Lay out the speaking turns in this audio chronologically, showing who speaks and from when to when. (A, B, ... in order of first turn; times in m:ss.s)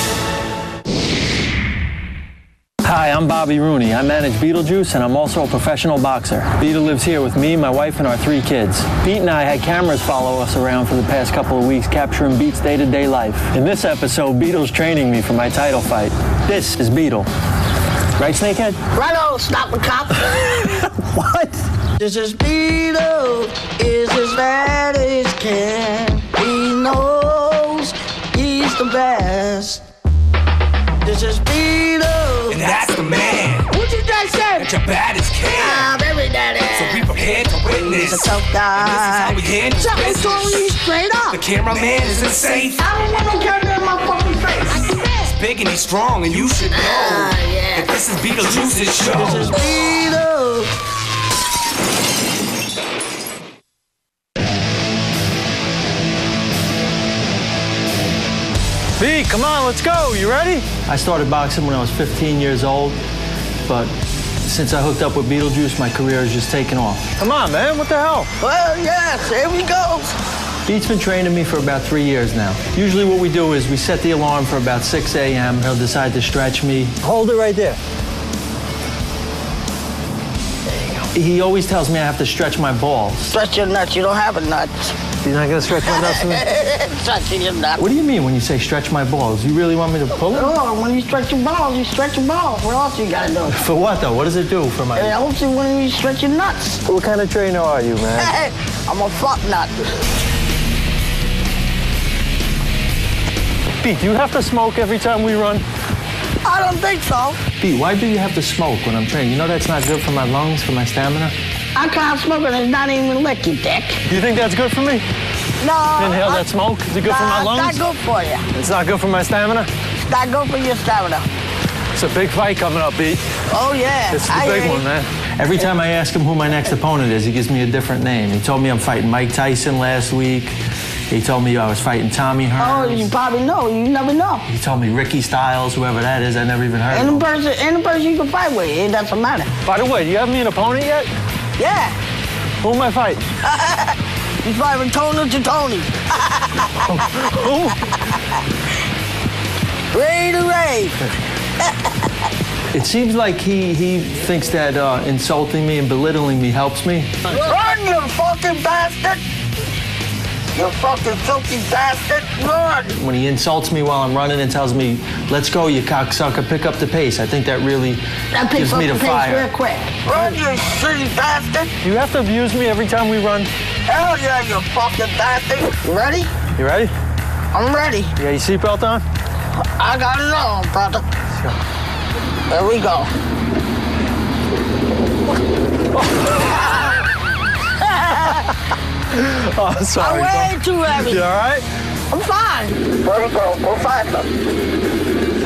0:02.8-0:17.3 A
0:18.2-0:18.8 A
0:18.9-0:20.8 B
0:20.3-0:21.6 A
0:22.0-0:29.8 B
0:31.0-0:33.0 B
0:32.5-0:33.7 C
0:33.6-0:34.7 B
0:34.5-0:35.9 C
0:35.5-0:37.1 B
0:36.7-0:42.8 C
0:37.7-0:41.4 B
0:42.8-0:45.1 B
0:45.2-0:49.5 C
0:46.7-0:47.9 B
0:49.0-0:50.7 B
0:59.0-1:03.0 A
1:04.4-1:08.3 A
1:08.4-1:10.1 B
1:10.7-1:17.8 A
1:21.1-1:23.3 A
1:23.3-1:25.0 B
1:25.2-1:26.5 A
1:25.9-1:27.8 B
1:27.8-1:30.6 A
1:30.3-1:33.6 B
1:33.5-1:35.2 A
1:35.0-1:36.8 B
1:36.8-1:38.3 A
1:38.2-1:39.8 B
1:43.8-1:45.6 A
1:46.4-1:47.4 B
1:47.6-1:51.3 A
1:51.8-1:54.0 B
1:54.1-1:55.0 A
1:55.6-1:56.4 B
1:56.0-1:57.8 A
1:57.0-1:58.5 B
1:58.5-1:59.7 A
2:00.1-2:01.3 B
2:01.9-2:03.2 A
2:03.5-2:04.8 B
2:04.1-2:10.5 A
2:11.1-2:13.1 A
2:12.6-2:14.4 B
2:14.5-2:17.3 A
2:16.9-2:19.5 B
2:19.6-2:21.1 A
2:21.6-2:22.0 B
2:22.6-2:23.2 A
2:23.4-2:26.9 B
2:26.8-2:28.0 A
2:29.9-2:31.0 B
2:32.7-2:37.1 A
2:37.3-2:39.2 B
2:40.5-2:42.9 B
2:42.9-2:48.0 A
2:48.3-2:51.7 B
2:48.5-2:49.5 A
2:51.8-2:53.5 A
2:53.9-2:56.3 B
2:56.6-2:56.9 A
2:57.5-2:58.2 B
2:58.2-2:59.0 A
2:59.6-3:01.1 B
3:01.3-3:01.6 A
3:02.5-3:03.1 B
3:07.8-3:08.5 B
3:09.1-3:11.6 A
3:10.0-3:11.2 B
3:12.1-3:14.3 B